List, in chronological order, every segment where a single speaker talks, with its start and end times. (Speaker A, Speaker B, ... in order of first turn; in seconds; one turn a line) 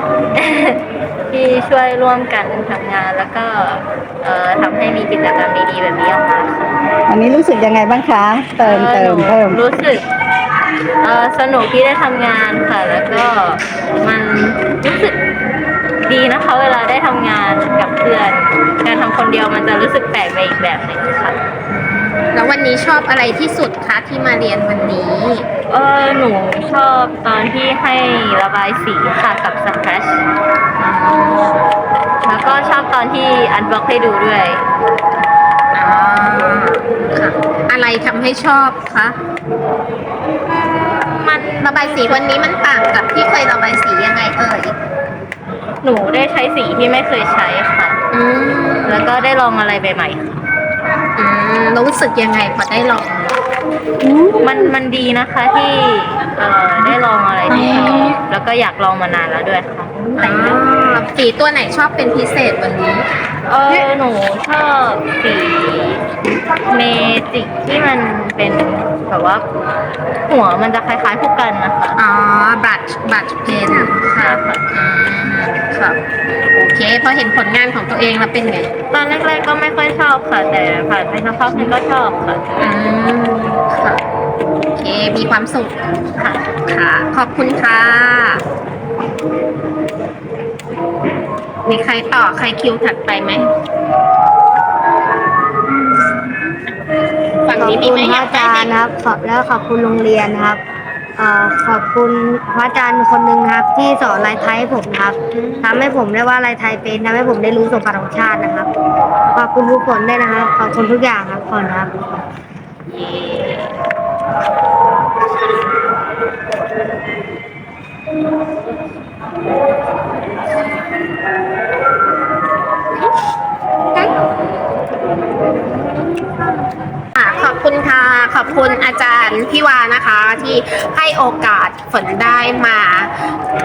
Speaker A: 0.3-6.7
Speaker B: 7.1-9.6
Speaker A: 8.6-10.0
Speaker A: 11.0-15.2
Speaker A: 16.0-21.4
Speaker C: 21.7-25.4
Speaker A: 25.7-30.2
Speaker C: 30.8-31.6
Speaker A: 32.2-34.6
Speaker C: 35.7-39.2
Speaker A: 40.5-42.2
Speaker C: 41.6-44.8
Speaker A: 45.8-48.0
Speaker C: 48.1-49.0
Speaker A: 48.9-50.4
Speaker C: 51.1-53.4
Speaker A: 54.4-60.6
Speaker C: 60.1-63.1
Speaker A: 63.5-66.0
Speaker A: 66.7-69.4
Speaker A: 70.3-72.0
Speaker C: 72.0-78.7
Speaker A: 73.5-74.6
Speaker A: 78.9-82.5
Speaker C: 82.6-84.0
Speaker C: 84.7-88.4
Speaker C: 91.6-93.5
Speaker C: 97.5-98.7
Speaker D: 97.6-100.6
Speaker D: 101.2-108.7
Speaker C: 105.3-105.7
Speaker D: 109.3-112.0
Speaker C: 112.9-113.5
Speaker C: 127.1-133.1